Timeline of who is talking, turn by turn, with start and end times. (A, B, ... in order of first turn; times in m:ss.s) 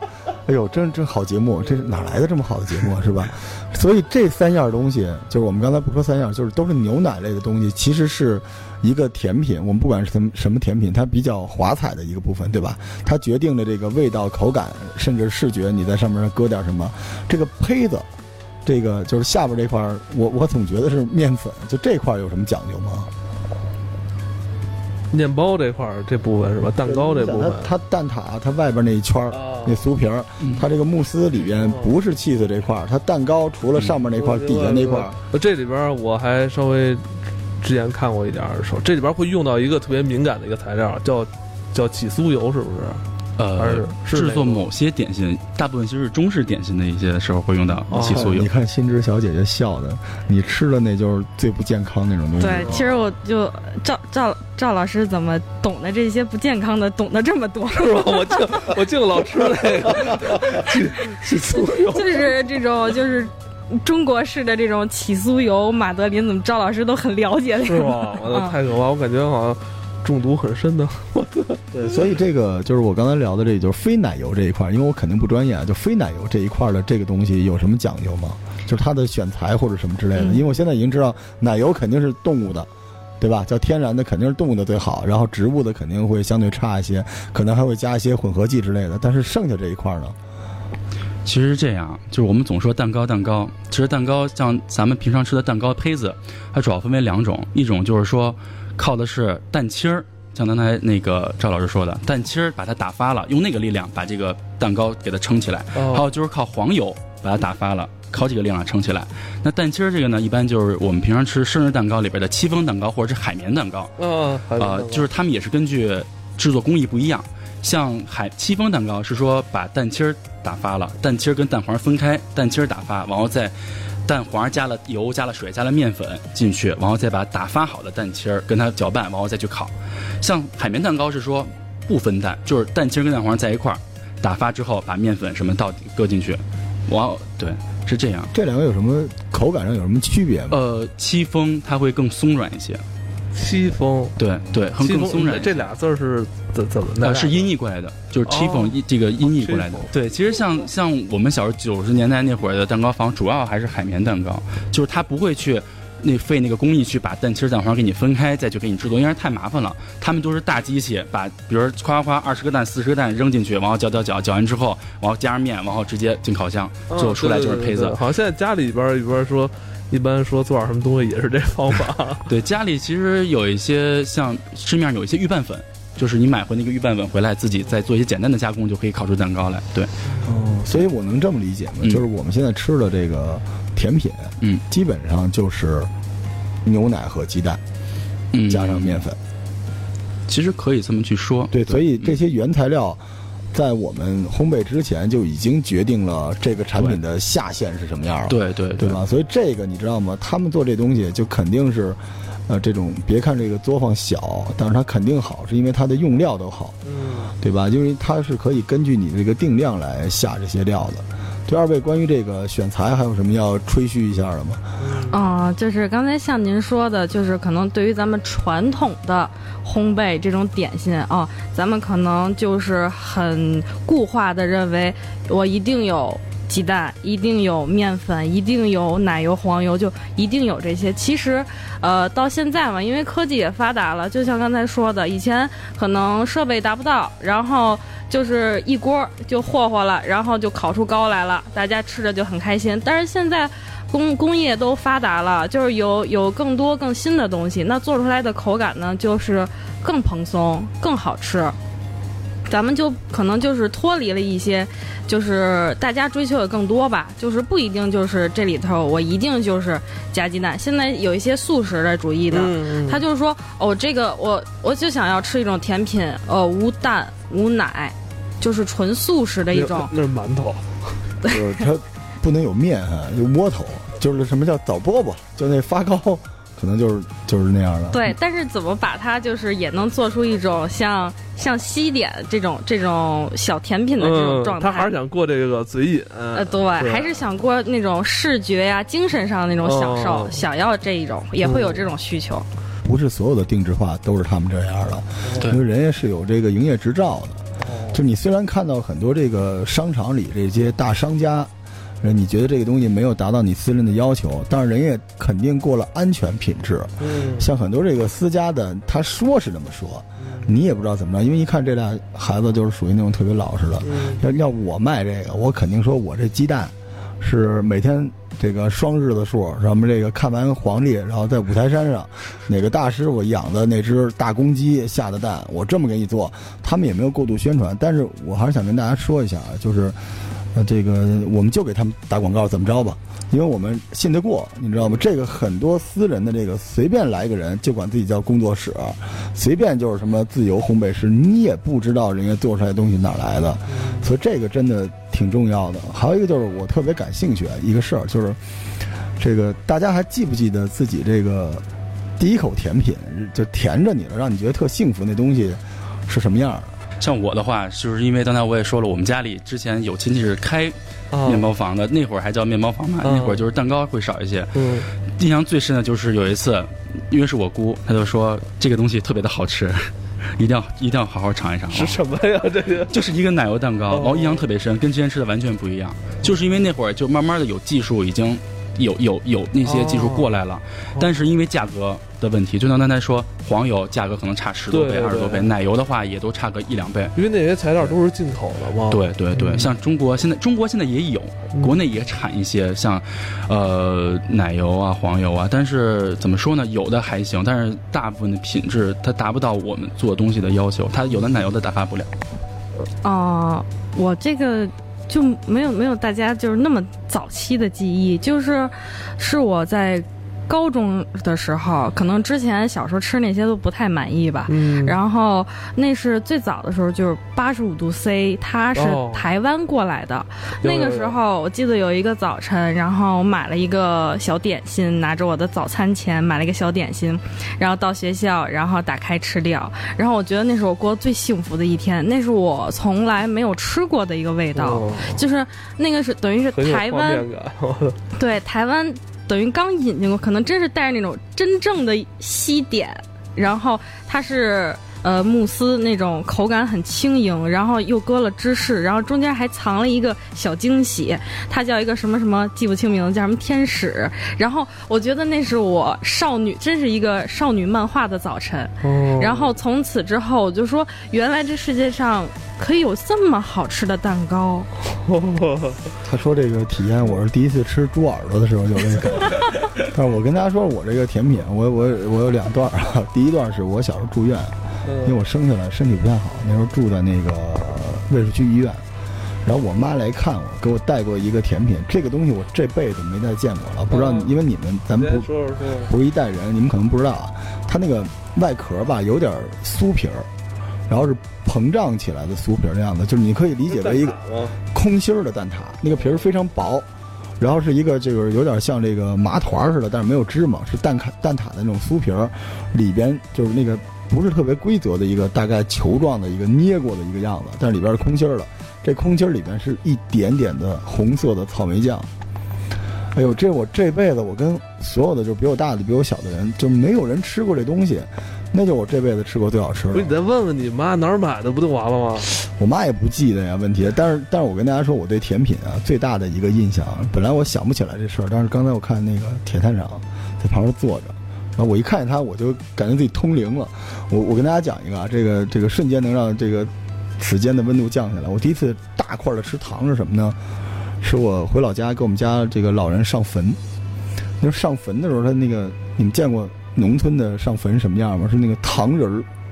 0:00.4-0:18.1 A
0:01.7-0:02.0 B
0:18.6-0:23.1 A
0:25.1-0:27.7 B
0:26.8-0:35.2 A
0:29.3-0:29.8 B
0:31.4-0:31.9 B
0:34.1-0:43.0 B
0:43.4-0:48.5 C
0:43.6-0:44.7 B
0:47.9-0:48.3 B
0:47.9-0:52.8 A
0:52.4-0:58.4 D
0:57.7-1:02.4 B
1:01.9-1:08.5 D
1:07.6-1:11.6 B
1:11.7-1:22.7 A
1:20.2-1:20.4 D
1:23.2-1:30.2 A
1:31.2-1:53.9 C
1:45.7-1:46.0 B
1:54.0-1:55.1 B
1:54.6-2:18.3 C
2:18.3-2:20.6 A
2:20.5-2:22.8 C
2:23.3-2:24.1 B
2:24.2-2:25.7 C
2:24.8-2:27.5 B
2:27.0-2:48.0 C
2:28.3-2:29.9 B
2:46.9-2:52.3 B
2:52.3-2:59.9 C
3:00.1-3:00.6 B
3:00.2-3:05.9 A
3:06.6-3:07.6 A
3:08.3-3:09.0 C
3:08.5-3:09.2 A
3:10.3-3:12.1 C
3:11.5-3:13.0 A
3:13.5-3:26.8 A
3:18.3-3:19.0 C
3:26.8-3:27.4 B
3:27.4-3:34.6 A
3:34.8-3:35.2 B
3:35.1-4:11.5 D
4:12.5-4:29.9 D
4:22.3-4:23.0 B
4:29.5-4:30.9 B
4:31.2-4:38.1 A
4:37.9-4:44.9 D
4:44.0-4:47.3 B
4:46.3-4:52.4 D
4:49.6-4:50.4 B
4:51.4-4:51.9 B
4:52.8-5:01.5 A
4:57.6-4:58.0 B
5:02.0-5:30.0 A
5:07.0-5:07.4 B
5:10.2-5:10.5 B
5:13.8-5:14.2 B
5:30.5-5:48.4 A
5:43.7-5:44.1 B
5:49.2-5:51.6 A
5:52.2-5:56.7 A
5:57.0-6:12.0 C
6:01.1-6:01.5 B
6:03.0-6:03.4 B
6:04.5-6:04.9 B
6:11.7-6:12.9 B
6:12.9-6:27.1 C
6:13.9-6:14.5 B
6:19.6-6:20.3 B
6:24.7-6:25.5 B
6:27.2-6:29.7 B
6:28.9-6:42.1 C
6:41.1-6:41.4 B
6:43.0-7:17.2 D
6:54.5-6:55.0 B
6:58.8-6:59.2 B
7:00.6-7:01.2 B
7:14.5-7:15.2 B
7:16.5-7:18.0 B
7:18.2-7:44.7 D
7:38.8-7:39.5 B
7:45.0-7:45.8 B
7:46.0-7:58.8 A
7:54.8-7:55.2 B
7:59.4-8:10.3 A
8:03.9-8:04.3 B
8:04.9-8:05.9 B
8:10.9-8:16.8 A
8:13.7-8:14.6 B
8:17.4-8:32.1 A
8:33.1-8:40.1 A
8:39.9-8:42.4 B
8:42.4-9:00.4 A
9:01.0-9:03.6 A
9:04.4-9:09.3 A